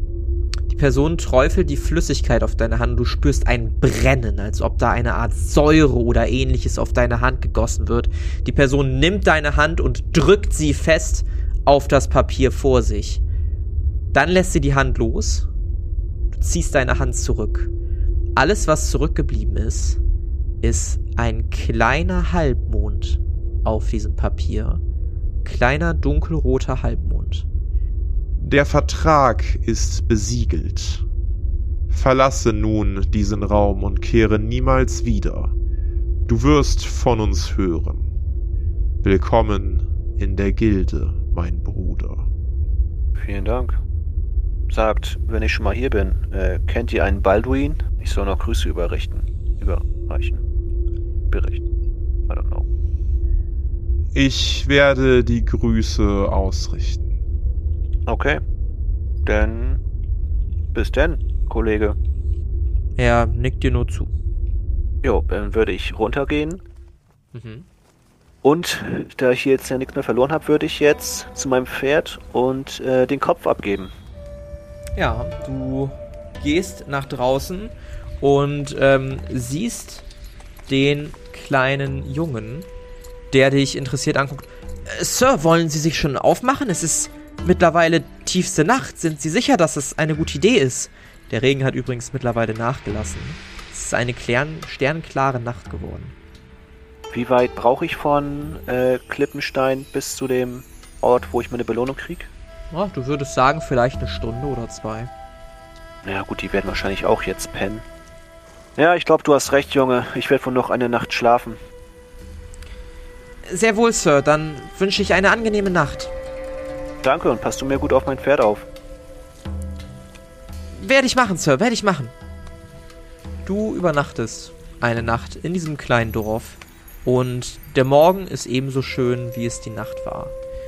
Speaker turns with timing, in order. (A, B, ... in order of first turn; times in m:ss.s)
0:00.7-0:13.2 A
0:14.1-0:15.5 A
0:16.3-0:17.7 A
0:18.4-0:20.0 A
0:20.6-0:24.8 A
0:25.4-0:27.4 A
0:28.4-0:31.0 B
0:31.9-0:35.6 B
0:36.2-0:38.1 B
0:39.0-0:42.3 B
0:43.2-0:43.8 C
0:44.7-0:50.4 C
0:51.3-0:51.6 C
0:52.3-0:52.7 C
0:54.1-0:57.2 B
0:58.0-0:58.4 C
0:59.2-0:59.8 C
1:00.7-1:02.0 C
1:03.0-1:04.1 A
1:05.0-1:06.6 C
1:07.3-1:07.6 A
1:08.4-1:13.9 C
1:15.0-1:20.0 A
1:20.7-1:22.7 A
1:23.3-1:36.1 A
1:37.1-1:42.3 C
1:42.7-1:45.1 A
1:46.0-1:47.8 C
1:48.8-1:51.6 C
1:53.4-1:56.1 A
1:57.0-1:58.7 C
2:00.7-2:02.1 A
2:03.4-2:10.3 A